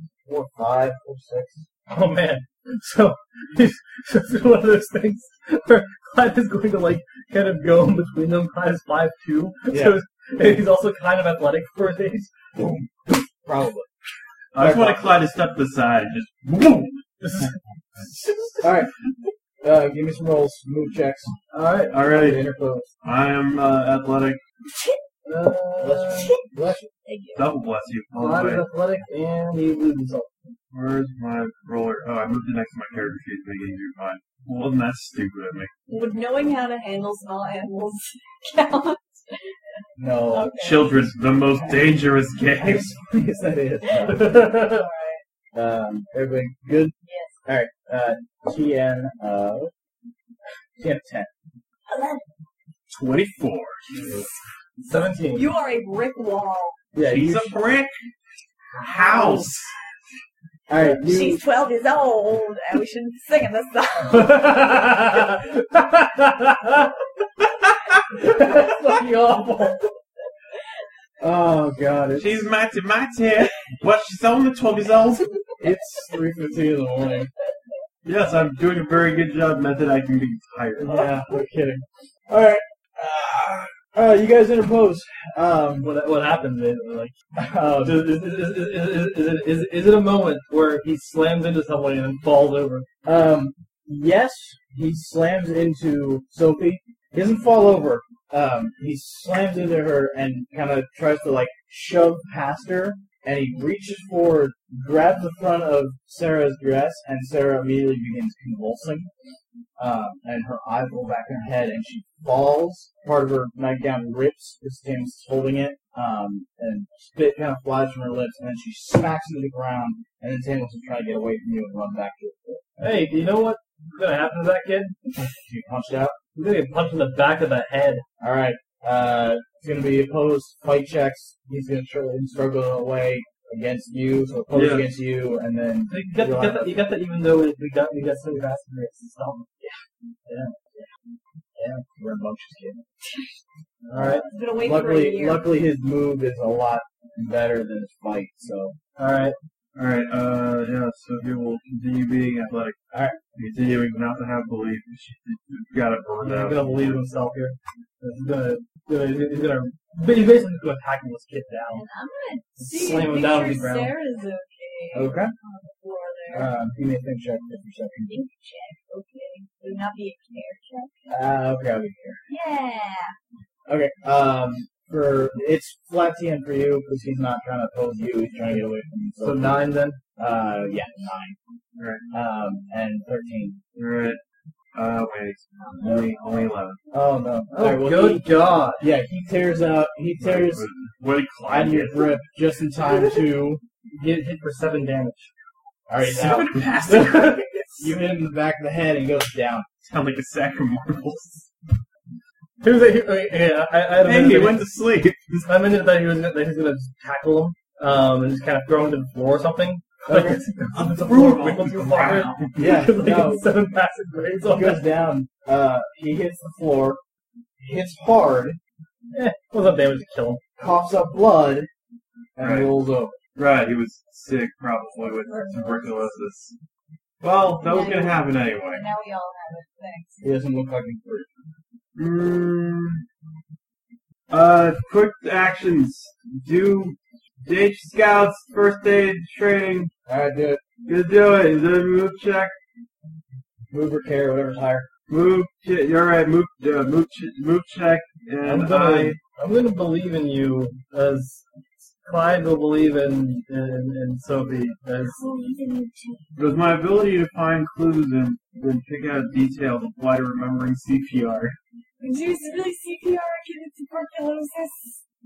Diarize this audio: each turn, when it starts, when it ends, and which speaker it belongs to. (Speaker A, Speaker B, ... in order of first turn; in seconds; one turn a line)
Speaker A: 0.2-1.6
Speaker B: 1.9-12.3
Speaker A: 9.7-10.0
Speaker A: 12.6-13.9
Speaker C: 14.5-17.0
Speaker A: 14.6-15.2
Speaker B: 17.2-18.7
Speaker A: 18.6-18.9
Speaker A: 19.6-21.3
Speaker B: 21.5-22.0
Speaker C: 21.9-22.4
Speaker A: 22.1-22.9
Speaker C: 23.0-24.4
Speaker D: 24.6-25.0
Speaker B: 25.2-26.4
Speaker A: 25.8-26.9
Speaker D: 26.1-26.4
Speaker D: 27.0-27.5
Speaker C: 27.4-28.6
Speaker B: 28.1-30.4
Speaker C: 30.7-35.7
Speaker D: 35.9-41.0
Speaker A: 40.0-40.5
Speaker C: 40.5-42.9
Speaker A: 42.6-44.3
Speaker D: 43.9-45.2
Speaker B: 44.0-44.9
Speaker A: 45.5-46.9
Speaker D: 47.0-47.4
Speaker A: 47.5-49.7
Speaker A: 50.8-51.3
Speaker D: 51.9-52.2
Speaker C: 52.9-53.9
Speaker B: 54.0-54.2
Speaker B: 54.8-55.5
Speaker D: 55.3-56.8
Speaker A: 56.9-57.6
Speaker C: 57.0-57.9
Speaker C: 58.8-59.7
Speaker D: 58.8-59.5
Speaker A: 60.7-61.4
Speaker D: 61.0-64.3
Speaker B: 64.1-66.9
Speaker B: 68.1-69.8
Speaker A: 71.2-72.5
Speaker C: 72.2-75.3
Speaker A: 75.6-77.3
Speaker C: 78.0-81.1
Speaker A: 80.8-85.9
Speaker B: 85.8-87.1
Speaker A: 87.3-88.1
Speaker B: 87.8-92.8
Speaker A: 93.0-109.1
Speaker A: 109.8-122.8
Speaker B: 122.8-124.9
Speaker A: 125.2-126.2
Speaker B: 126.3-128.0
Speaker A: 128.2-136.8
Speaker C: 134.5-134.9
Speaker B: 135.9-139.5
Speaker A: 139.6-140.9
Speaker A: 141.6-142.8
Speaker D: 143.0-143.4
Speaker A: 143.8-148.8
Speaker B: 143.9-144.2
Speaker D: 144.3-145.5
Speaker B: 148.9-149.4
Speaker C: 149.7-152.8
Speaker A: 152.9-153.2
Speaker C: 153.3-157.0
Speaker B: 156.2-161.8
Speaker D: 161.7-166.5
Speaker B: 162.6-163.9
Speaker A: 164.9-165.3
Speaker A: 166.3-168.2
Speaker D: 168.1-170.9
Speaker A: 171.1-172.2
Speaker D: 172.3-173.2
Speaker A: 173.7-179.6
Speaker B: 179.2-180.0
Speaker A: 180.2-181.4
Speaker C: 181.8-182.0
Speaker A: 182.1-183.6
Speaker C: 183.7-184.2
Speaker C: 184.7-186.8
Speaker A: 185.8-188.3
Speaker B: 187.5-188.8
Speaker A: 188.8-190.7
Speaker C: 190.2-192.1
Speaker A: 191.5-193.6
Speaker B: 193.9-195.3
Speaker A: 195.9-196.6
Speaker C: 196.0-197.9
Speaker B: 196.8-197.5
Speaker A: 197.8-199.7
Speaker C: 199.8-201.7
Speaker B: 202.6-204.7
Speaker C: 204.0-205.4
Speaker B: 205.4-214.9
Speaker A: 210.1-210.4
Speaker C: 210.7-212.6
Speaker A: 212.6-213.4
Speaker A: 214.5-217.0
Speaker A: 217.6-218.6
Speaker B: 219.1-220.4
Speaker A: 220.6-221.7
Speaker A: 222.3-223.2
Speaker C: 222.4-222.7
Speaker C: 223.3-226.5
Speaker D: 225.0-226.2
Speaker C: 227.2-228.8
Speaker D: 227.6-230.2
Speaker A: 230.2-231.3
Speaker C: 231.9-233.0
Speaker C: 234.3-239.9
Speaker A: 240.1-240.6
Speaker C: 240.8-242.5
Speaker A: 243.7-244.9
Speaker C: 245.1-249.2
Speaker B: 248.4-255.2
Speaker D: 255.0-256.4
Speaker C: 256.4-261.6
Speaker D: 262.0-265.0